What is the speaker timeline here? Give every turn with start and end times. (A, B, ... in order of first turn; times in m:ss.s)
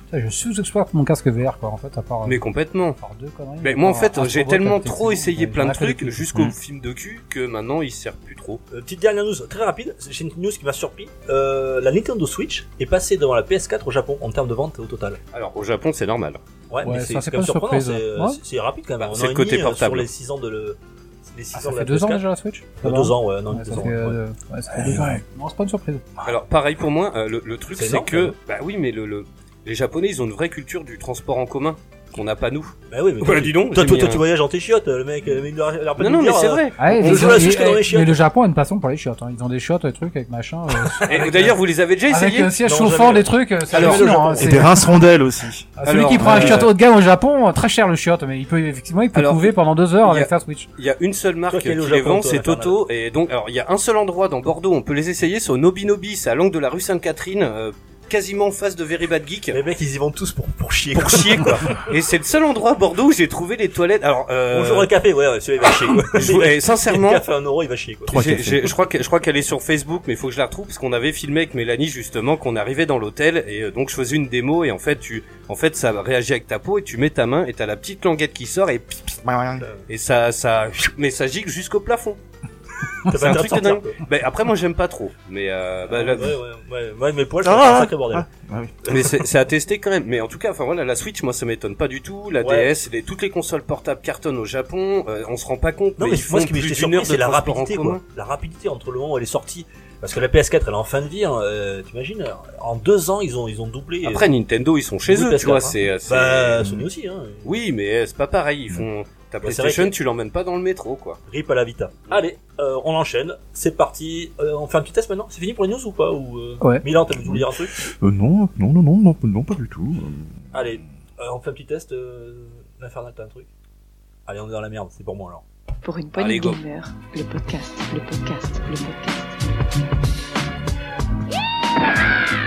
0:00.1-0:02.4 A
0:02.2-0:03.0 B
0:03.0-0:06.2 A
0:03.6-0:08.6 B
0:08.7-0:15.2 C
0:15.3-0:16.4 B
0:16.7-0:22.2 C
0:16.8-0:18.4 A
0:19.0-0:20.1 B
0:21.5-0:26.0 A
0:22.8-0:24.2 C
0:24.7-0:25.2 D
0:26.2-0:34.2 B
0:27.7-0:28.3 C
0:32.9-0:38.2 C
0:36.0-0:37.4 B
0:36.8-0:41.6 A
0:40.9-0:41.5 C
0:41.1-0:42.6 B
0:42.1-0:44.7 A
0:42.6-0:44.7 C
0:43.7-0:44.1 B
0:44.4-0:46.7 D
0:45.8-0:50.7 A
0:45.8-0:46.7 B
0:49.1-0:59.6 B
0:51.5-0:52.8 C
0:59.5-1:01.8 C
1:00.9-1:04.9 B
1:04.5-1:08.2 C
1:06.1-1:07.2 B
1:08.1-1:08.7 D
1:08.1-1:19.2 B
1:19.2-1:19.7 D
1:19.9-1:22.2 B
1:23.0-1:24.0 C
1:23.1-1:26.4 B
1:25.9-1:28.2 C
1:27.4-1:29.2 D
1:28.8-1:38.0 B
1:32.4-1:32.7 C
1:36.0-1:44.3 C
1:44.0-1:46.8 B
1:45.1-1:47.6 C
1:47.4-1:51.2 B
1:49.4-1:49.9 C
1:51.3-1:57.7 C
1:57.1-2:00.4 D
2:00.5-2:03.5 C
2:04.3-2:05.4 C
2:05.8-2:09.4 E
2:06.1-2:06.6 B